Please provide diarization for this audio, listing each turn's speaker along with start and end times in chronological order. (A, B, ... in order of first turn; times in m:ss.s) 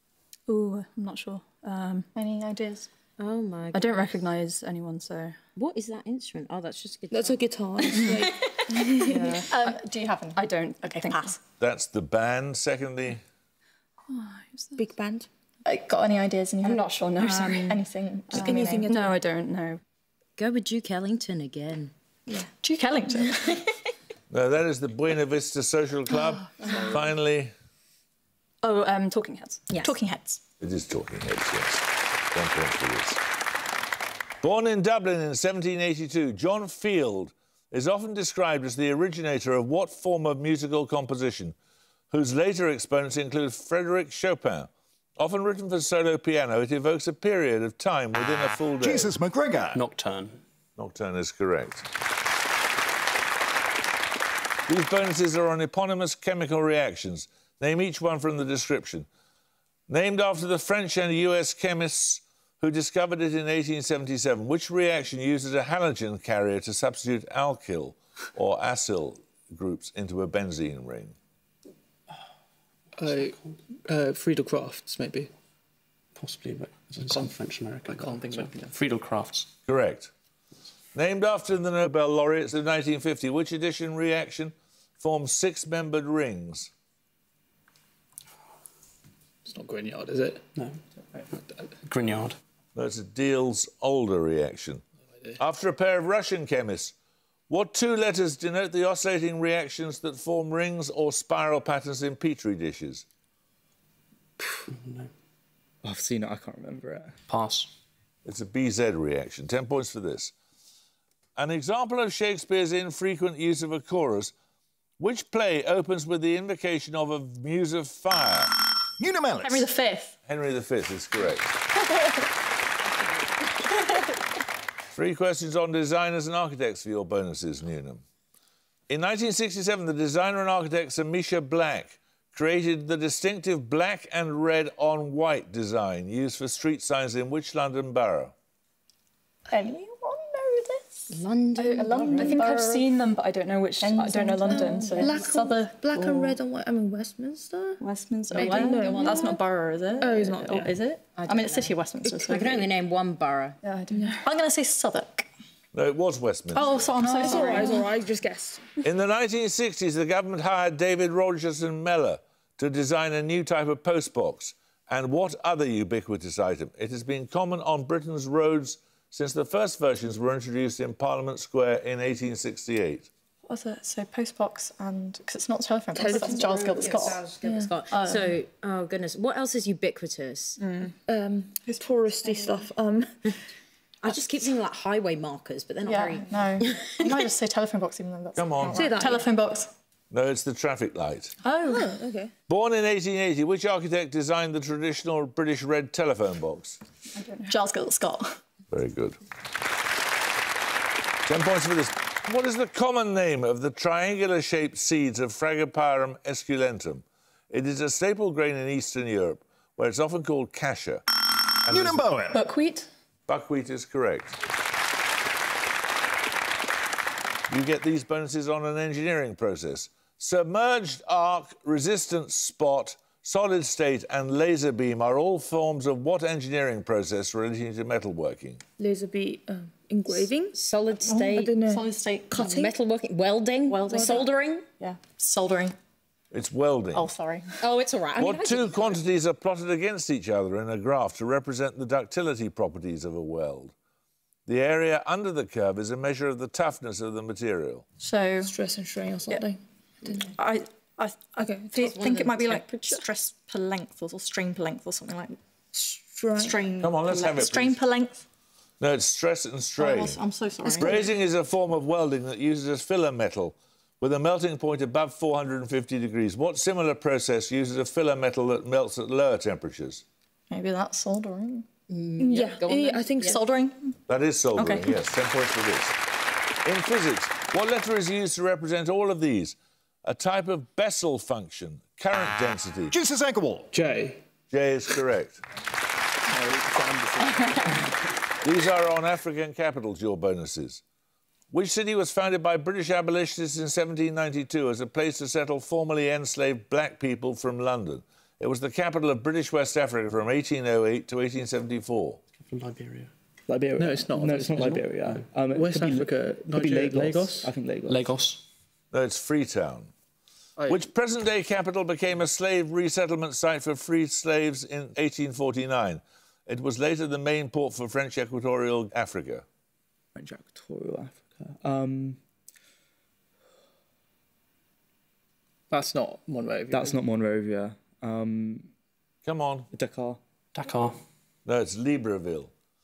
0:00.5-0:02.1 A
0:02.1-0:02.9 B
0:03.2-0:04.0 C
0:03.7-0:05.4 A
0:05.6-0:08.0 C
0:07.1-0:09.4 D
0:09.0-0:09.4 C
0:09.1-0:09.8 A
0:09.5-0:11.4 B
0:10.3-0:11.4 A
0:11.6-0:13.2 E
0:14.2-0:14.7 A
0:14.8-0:15.3 D
0:15.6-0:19.2 B
0:16.6-0:19.8 A
0:18.3-0:19.1 D
0:20.4-0:21.9 C
0:22.6-0:23.7 B
0:24.3-0:27.5 E
0:28.6-0:29.6 A
0:29.8-0:30.4 B
0:30.6-0:33.2 E
0:34.4-0:41.5 E
0:42.1-0:49.1 E
0:48.8-0:49.8 F
0:49.7-0:50.4 G
0:50.8-0:51.8 E
0:54.7-0:59.1 E
0:59.9-1:11.1 E
1:13.0-1:15.3 H
1:13.0-1:13.5 G
1:16.1-1:19.5 G
1:17.1-1:17.3 H
1:17.8-1:18.7 H
1:19.6-1:20.1 E
1:20.9-1:26.7 E
1:29.4-1:30.4 H
1:31.8-1:32.4 G
1:32.7-1:34.8 E
1:35.4-1:36.9 E
1:37.5-1:43.0 E
1:44.7-1:45.1 G
1:45.8-1:47.1 I
1:47.3-1:47.7 G
1:48.2-1:50.3 E
1:51.4-1:54.3 E
1:55.0-1:58.5 E
1:59.0-1:59.7 F
1:59.4-2:00.2 B
2:00.3-2:01.5 E
2:04.9-2:08.0 E
2:08.9-2:18.3 E
2:19.5-2:21.1 B
2:21.1-2:22.4 C
2:21.6-2:25.1 A
2:21.8-2:23.0 B
2:23.8-2:26.4 B
2:24.5-2:29.4 D
2:27.8-2:32.6 B
2:28.4-2:28.8 A
2:28.7-2:29.1 C
2:30.0-2:30.8 D
2:31.1-2:33.6 C
2:33.6-2:34.3 A
2:34.2-2:35.3 B
2:35.7-2:36.8 E
2:36.6-2:37.9 A
2:36.6-2:37.8 B
2:37.0-2:38.7 D
2:38.8-2:53.1 E
2:53.4-2:57.2 B
2:56.0-3:00.6 C
2:56.1-2:56.4 D
2:57.4-2:58.2 D
2:57.9-2:58.2 B
3:00.6-3:01.0 A
3:01.1-3:03.3 D
3:04.0-3:07.3 C
3:05.8-3:09.7 B
3:08.4-3:08.9 E
3:08.7-3:09.3 D
3:10.1-3:11.3 E
3:11.5-3:12.3 D
3:12.5-3:16.8 E
3:17.1-3:17.6 A
3:17.5-3:18.4 B
3:18.7-3:19.2 E
3:21.2-3:31.0 E
3:31.6-3:32.1 E
3:31.7-3:32.4 F
3:32.4-3:32.8 B
3:33.3-3:34.4 E
3:37.5-3:48.6 E
3:48.8-3:50.6 D
3:50.5-3:51.6 C
3:51.1-3:51.8 D
3:51.2-3:52.7 B
3:52.3-3:54.6 C
3:52.4-3:52.7 D
3:53.7-3:54.3 D
3:53.8-3:54.2 B
3:54.8-3:55.8 B
3:56.3-3:57.1 E
3:56.9-3:57.5 B
3:57.6-3:59.0 C
3:58.2-4:03.7 E
4:04.4-4:07.8 E
4:08.0-4:08.5 B
4:08.4-4:10.4 D
4:10.3-4:15.4 B
4:11.4-4:12.9 D
4:11.8-4:12.6 C
4:15.7-4:16.6 D
4:16.4-4:18.2 B
4:16.8-4:17.8 E
4:18.8-4:30.0 E
4:19.8-4:21.1 B
4:30.5-4:31.6 B
4:31.9-4:33.4 C
4:32.2-4:33.4 D
4:33.2-4:33.9 B
4:34.1-4:36.0 E
4:34.6-4:34.9 B
4:36.6-4:42.9 E
4:42.9-4:43.7 F
4:43.7-4:44.2 H
4:44.5-4:45.4 E
4:46.3-4:48.0 H
4:48.4-4:50.8 E
4:51.5-5:02.2 E
5:02.4-5:03.1 G
5:03.5-5:08.0 I
5:03.8-5:04.8 H
5:04.5-5:05.4 G
5:05.5-5:07.5 H
5:07.8-5:08.4 G
5:08.9-5:09.9 E
5:10.6-5:10.8 H
5:10.7-5:19.4 E
5:20.1-5:22.2 I
5:25.7-5:27.0 H
5:26.7-5:28.7 I
5:29.2-5:29.7 E
5:29.7-5:30.2 I
5:30.5-5:31.0 G
5:31.4-5:32.5 E